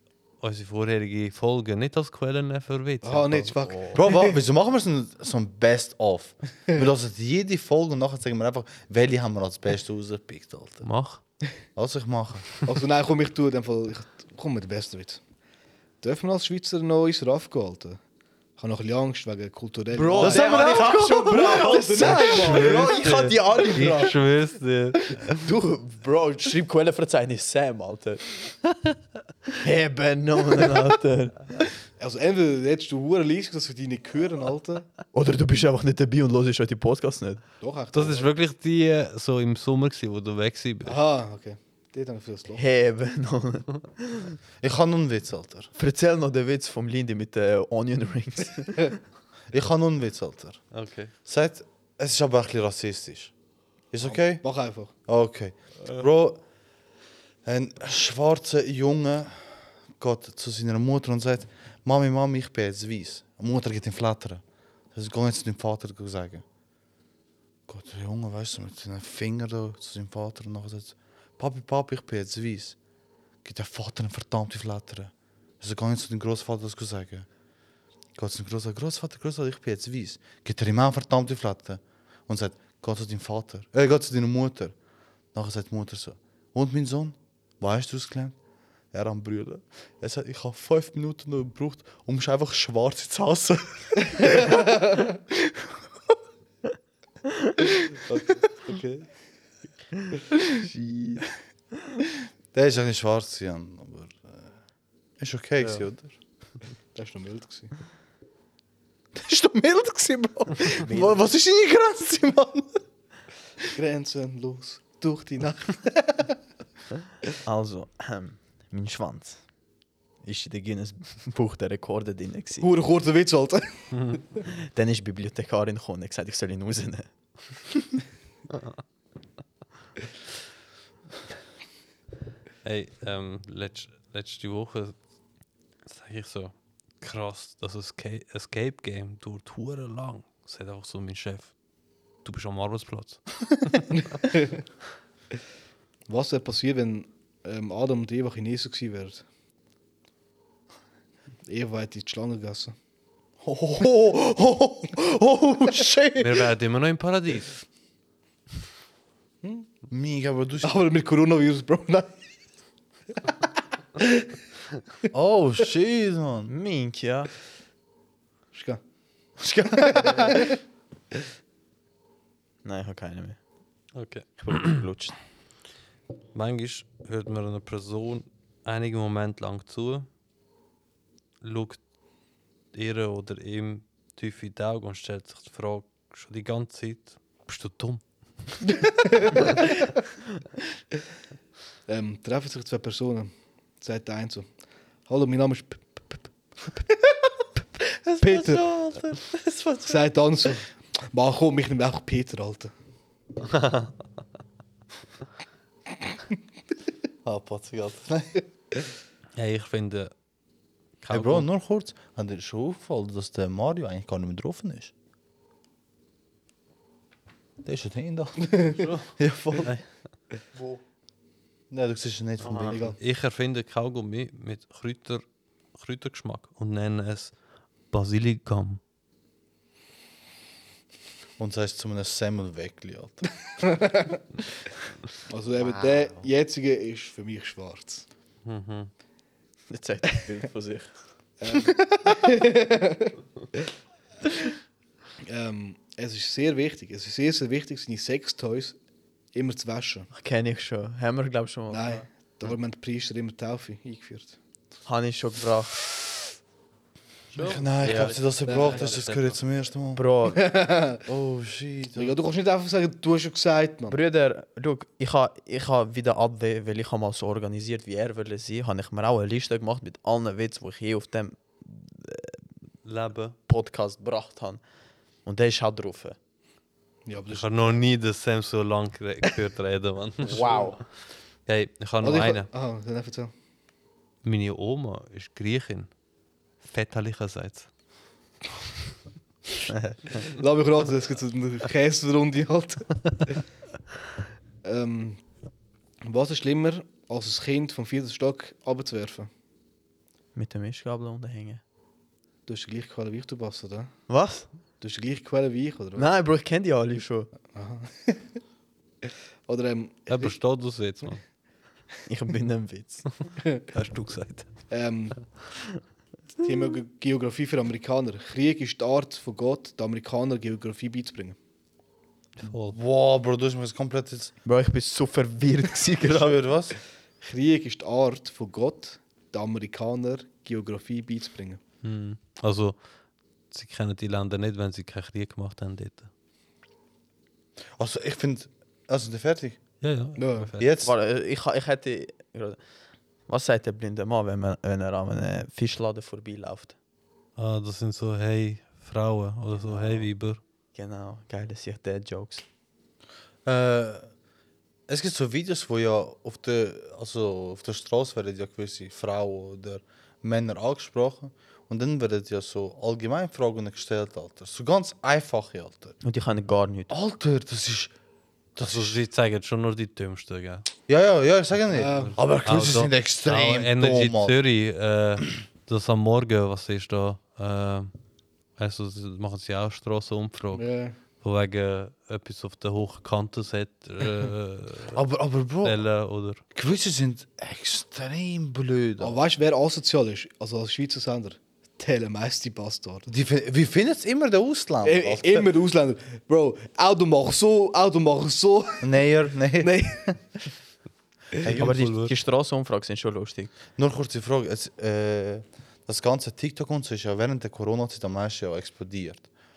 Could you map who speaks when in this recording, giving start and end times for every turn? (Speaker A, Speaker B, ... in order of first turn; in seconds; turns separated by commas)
Speaker A: 0.4-3.5, Speaker B: 3.0-4.4, Speaker C: 3.6-4.0, Speaker D: 4.0-10.9, Speaker A: 10.8-11.2, Speaker D: 11.8-12.5, Speaker B: 12.7-15.2, Speaker B: 16.0-18.0, Speaker B: 18.6-23.0, Speaker C: 19.9-24.2, Speaker D: 20.1-22.5, Speaker A: 22.3-25.4, Speaker C: 25.1-28.4, Speaker C: 29.6-31.7, Speaker B: 32.0-34.9, Speaker C: 35.1-37.4, Speaker B: 37.6-38.3, Speaker A: 37.9-41.0, Speaker B: 40.9-42.6, Speaker C: 42.5-44.4, Speaker D: 44.6-45.7, Speaker C: 45.8-49.0, Speaker D: 49.5-50.6, Speaker A: 50.7-51.1, Speaker D: 51.3-53.3, Speaker D: 53.9-54.5, Speaker B: 54.0-54.9, Speaker D: 55.1-56.4, Speaker D: 57.5-64.4, Speaker D: 64.9-66.4, Speaker D: 67.7-72.8, Speaker D: 73.4-77.3, Speaker D: 78.2-84.7, Speaker D: 85.3-88.4, Speaker D: 88.9-95.5, Speaker C: 97.3-97.7, Speaker B: 98.1-99.0, Speaker C: 100.1-101.3, Speaker D: 102.5-104.4, Speaker D: 105.2-106.2, Speaker B: 107.0-107.7, Speaker D: 109.2-112.8, Speaker C: 110.8-111.2, Speaker B: 113.8-116.4, Speaker C: 117.5-119.4, Speaker C: 120.2-122.7, Speaker B: 122.6-123.7, Speaker A: 123.9-124.2, Speaker C: 124.7-127.1, Speaker A: 132.6-135.0, Speaker A: 135.9-141.5, Speaker A: 142.2-144.0, Speaker B: 144.2-144.6, Speaker B: 146.1-149.2, Speaker B: 151.5-152.8, Speaker D: 153.4-156.5, Speaker A: 156.2-157.6, Speaker B: 159.4-159.7, Speaker D: 159.9-160.8, Speaker B: 160.6-162.2, Speaker B: 164.0-164.3, Speaker D: 165.1-166.5, Speaker C: 166.5-167.3, Speaker B: 168.5-168.8, Speaker D: 169.4-170.5, Speaker B: 169.8-170.5, Speaker C: 172.6-173.4, Speaker A: 173.9-174.8, Speaker C: 174.4-175.2, Speaker A: 176.3-180.1, Speaker A: 181.4-181.8, Speaker A: 182.7-188.0, Speaker B: 188.8-189.7, Speaker B: 191.9-194.5, Speaker B: 195.1-197.3, Speaker D: 198.1-200.1, Speaker B: 198.2-198.7, Speaker B: 199.9-202.7, Speaker A: 203.4-203.9, Speaker D: 207.2-208.4, Speaker A: 209.4-210.1, Speaker A: 211.0-211.5, Speaker D: 211.1-214.9, Speaker D: 217.6-219.7, Speaker B: 218.5-218.8, Speaker A: 218.8-219.8, Speaker C: 220.6-220.8, Speaker D: 221.7-223.0, Speaker A: 222.4-227.3, Speaker C: 222.5-222.8, Speaker B: 222.7-223.0, Speaker A: 227.9-228.8, Speaker D: 231.4-233.7, Speaker B: 233.7-234.2, Speaker B: 235.3-238.1, Speaker D: 235.6-236.2, Speaker A: 238.4-238.9, Speaker C: 239.7-240.9, Speaker B: 241.4-243.1, Speaker B: 245.2-248.8, Speaker B: 249.3-250.1, Speaker C: 250.1-252.0, Speaker B: 251.7-254.4, Speaker C: 254.9-255.8, Speaker C: 257.3-258.9, Speaker A: 257.3-259.4, Speaker D: 257.5-260.0, Speaker B: 258.4-258.8, Speaker C: 260.0-260.4, Speaker B: 260.2-261.0, Speaker D: 261.1-262.1, Speaker B: 261.9-264.0, Speaker C: 263.9-272.4, Speaker A: 272.9-273.4, Speaker C: 273.5-274.6, Speaker C: 275.2-276.2, Speaker B: 277.1-277.8, Speaker A: 277.3-280.7, Speaker C: 280.3-280.8, Speaker B: 280.4-280.7, Speaker A: 281.5-282.5, Speaker B: 282.0-283.3, Speaker A: 284.2-285.9, Speaker A: 286.6-287.7, Speaker C: 289.7-290.2, Speaker B: 290.2-293.4, Speaker B: 294.6-295.2, Speaker B: 296.0-299.3, Speaker C: 300.4-301.6, Speaker B: 302.5-303.9, Speaker C: 304.1-304.5, Speaker B: 304.8-306.1, Speaker C: 306.0-307.3, Speaker B: 307.5-308.2, Speaker B: 309.0-310.4, Speaker A: 310.1-311.2, Speaker C: 312.1-313.1, Speaker A: 313.7-314.5, Speaker B: 314.7-315.2, Speaker B: 316.4-321.4, Speaker A: 322.4-322.8, Speaker D: 322.7-324.4, Speaker C: 324.4-326.4, Speaker D: 326.0-326.8, Speaker B: 327.2-331.6, Speaker A: 331.8-332.8, Speaker A: 333.5-336.1, Speaker D: 337.8-339.6, Speaker A: 339.8-340.7, Speaker B: 340.2-340.5, Speaker D: 340.6-340.9, Speaker C: 340.8-342.6, Speaker C: 343.3-346.8, Speaker A: 347.4-350.4, Speaker C: 349.7-350.1, Speaker C: 350.8-352.4, Speaker D: 353.4-354.1, Speaker D: 354.9-366.0, Speaker C: 366.0-366.9, Speaker D: 366.9-367.9, Speaker D: 368.6-369.0, Speaker A: 368.6-370.7, Speaker D: 370.9-374.3, Speaker B: 371.7-372.2, Speaker A: 371.9-377.9, Speaker A: 378.6-380.6, Speaker B: 380.5-381.0, Speaker A: 381.2-385.0, Speaker D: 384.9-385.8, Speaker A: 385.6-386.4, Speaker D: 386.5-389.2, Speaker B: 389.0-393.1, Speaker D: 393.1-395.5, Speaker B: 394.8-398.9, Speaker D: 398.8-399.7, Speaker B: 399.6-400.2, Speaker D: 401.4-401.8, Speaker C: 401.5-403.5, Speaker A: 401.5-402.1, Speaker D: 403.8-409.3